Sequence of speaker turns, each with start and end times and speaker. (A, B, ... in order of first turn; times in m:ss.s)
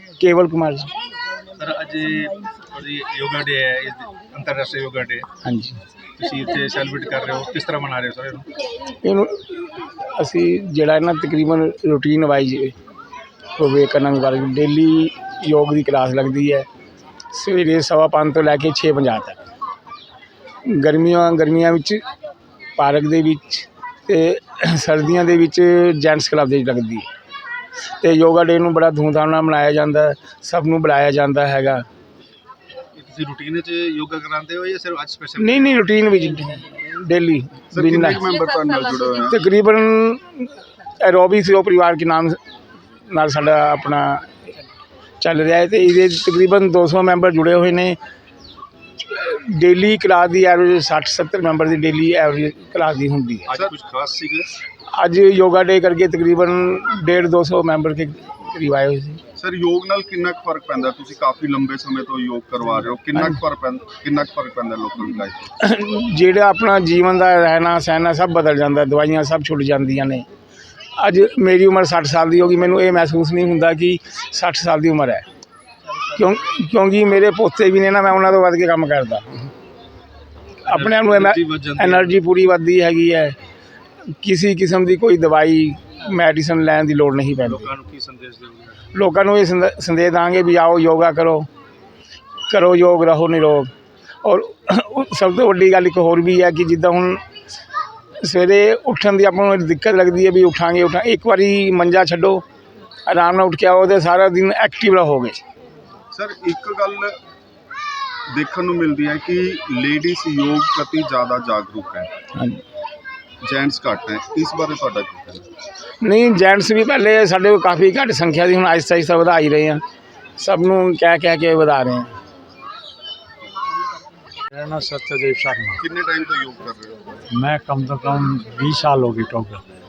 0:00.2-0:00.9 A
0:01.6-0:05.3 B
0:05.4-0:05.8 A
0:06.2-0:08.5 B
0:08.9-0:12.7 A
0:13.6-0:16.7 A
0:17.3-0:19.4 A
0:20.7-0:22.0 A
0:22.8-0:27.1 A
0:28.0-0:31.8 A
0:33.0-0:35.7 B
0:35.4-0:38.3 A
0:37.8-0:39.4 C
0:39.3-0:42.4 A
0:43.1-0:44.4 A
0:45.2-0:48.0 A
0:49.0-0:53.5 A
0:53.5-0:54.5 B
0:54.9-0:59.2 A
0:59.4-1:05.5 C
1:05.6-1:10.3 A
1:11.0-1:15.2 A
1:16.1-1:19.5 A
1:20.6-1:23.4 A
1:20.7-1:22.1 B
1:24.2-1:27.7 A
1:27.4-1:28.8 B
1:28.9-1:31.5 A
1:32.5-1:33.7 A
1:34.2-1:37.2 A
1:38.2-1:42.4 A
1:43.1-1:45.4 A
1:46.1-1:47.2 C
1:48.3-1:52.1 C
1:52.4-1:52.6 A
1:53.4-1:55.5 C
1:56.0-1:59.8 A
2:00.4-2:02.1 A
2:04.5-2:05.8 D
2:05.8-2:07.1 C
2:07.3-2:09.6 D